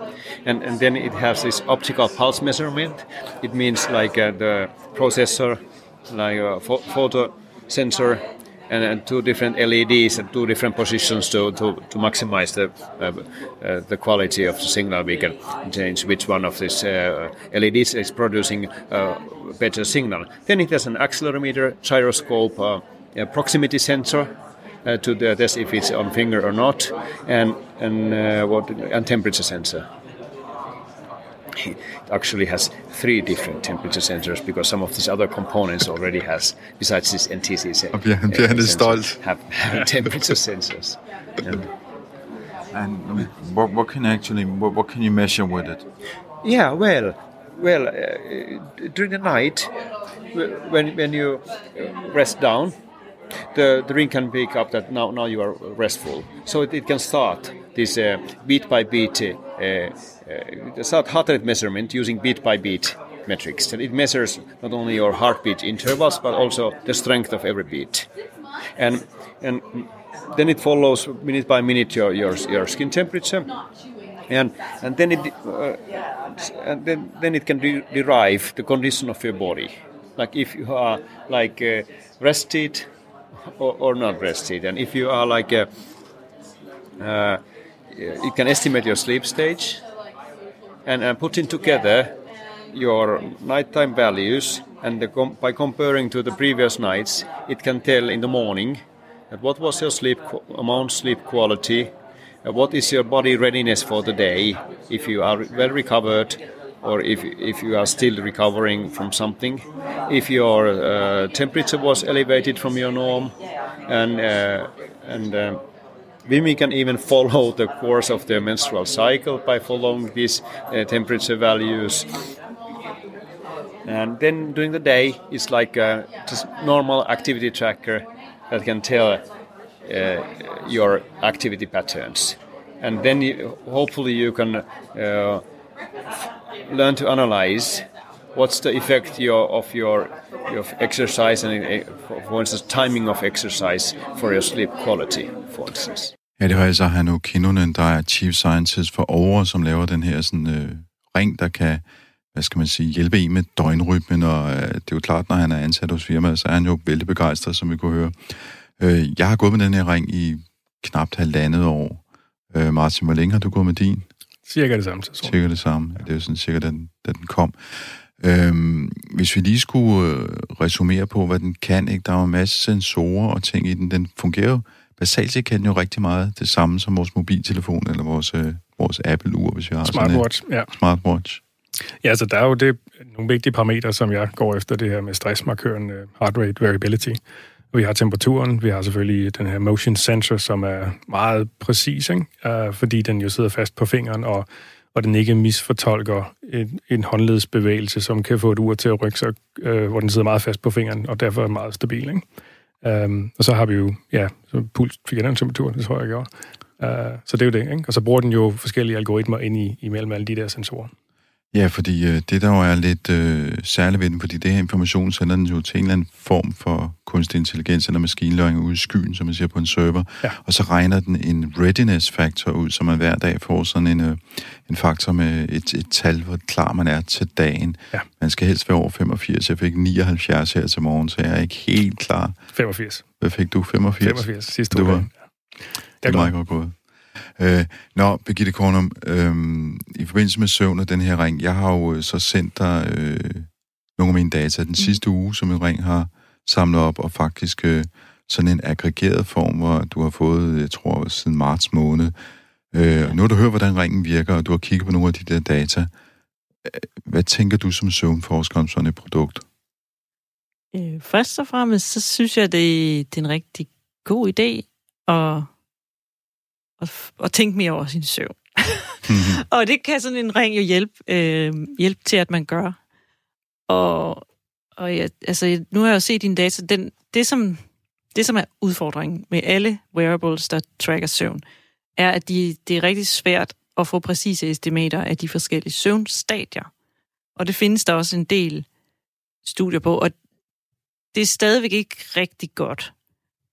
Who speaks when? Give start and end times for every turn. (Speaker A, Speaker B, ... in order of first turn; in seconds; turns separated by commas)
Speaker A: 0.5-24.3, Speaker A: 24.8-29.9, Speaker A: 31.6-41.6, Speaker B: 37.9-39.2, Speaker B: 42.7-45.8, Speaker A: 46.4-49.7, Speaker A: 50.3-52.7, Speaker A: 53.5-68.1, Speaker A: 68.8-73.5, Speaker A: 74.3-82.8, Speaker A: 83.6-85.7, Speaker A: 87.0-87.4, Speaker A: 87.9-89.8, Speaker A: 90.8-92.1, Speaker A: 92.7-98.8, Speaker A: 99.3-101.9, Speaker A: 102.4-113.3, Speaker A: 113.9-115.6, Speaker A: 116.2-122.1, Speaker A: 123.8-129.2, Speaker A: 129.8-135.4, Speaker A: 136.7-146.1, Speaker B: 146.4-151.8, Speaker B: 152.3-164.1, Speaker C: 164.4-165.4, Speaker B: 165.2-181.4, Speaker C: 179.9-180.7, Speaker C: 182.0-187.2, Speaker C: 187.7-202.2, Speaker C: 202.8-210.9, Speaker B: 211.5-232.4, Speaker C: 232.5-233.0, Speaker B: 233.2-235.1, Speaker C: 234.0-236.3, Speaker B: 236.0-236.8, Speaker B: 237.4-252.1, Speaker B: 252.7-255.9, Speaker B: 256.6-259.4, Speaker D: 260.7-265.5, Speaker D: 266.8-272.8, Speaker B: 269.1-269.4, Speaker D: 273.7-274.2, Speaker D: 274.8-277.6, Speaker D: 278.1-281.4, Speaker D: 282.0-286.7, Speaker D: 287.4-288.6, Speaker D: 289.4-290.1, Speaker D: 291.1-292.9